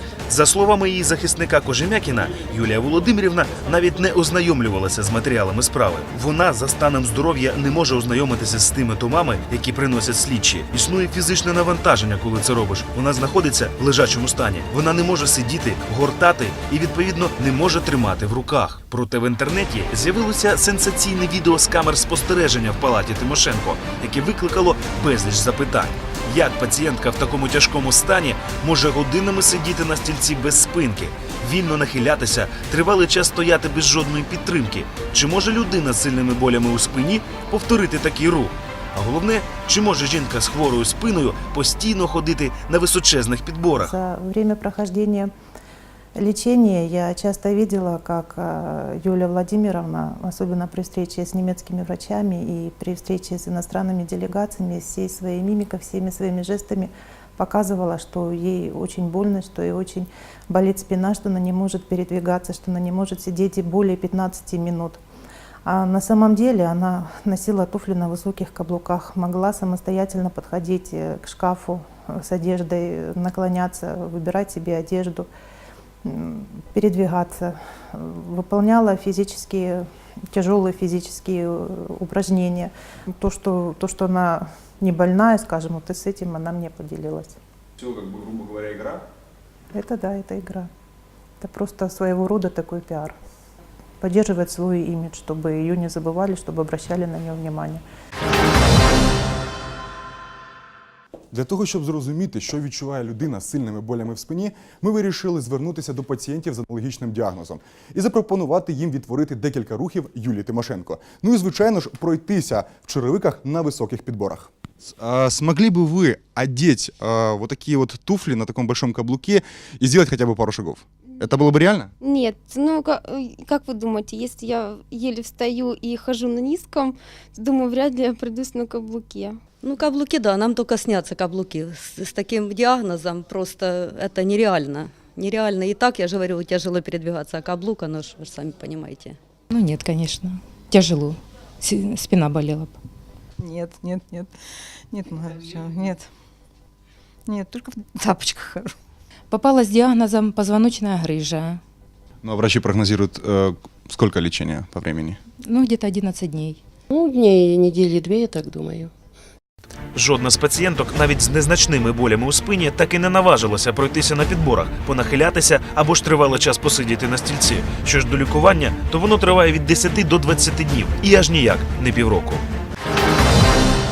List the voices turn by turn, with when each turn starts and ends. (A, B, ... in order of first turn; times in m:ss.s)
0:00.3-0:44.0 A
0:43.8-0:45.3 B
0:46.2-1:05.0 B
1:05.6-1:15.3 B
1:16.0-1:27.4 B
1:27.8-1:29.0 C
1:29.7-1:30.7 B
1:31.4-1:33.2 B
1:34.0-1:37.8 B
1:41.3-2:01.9 C
2:02.0-2:09.4 D
2:09.6-2:19.2 E
2:19.5-2:22.8 F
2:23.4-2:24.3 G
2:24.9-2:26.1 G
2:27.3-2:28.7 G
2:29.3-2:31.6 F
2:32.2-2:35.2 C
2:35.4-2:36.6 F
2:36.9-2:38.9 H
2:40.0-2:52.4 A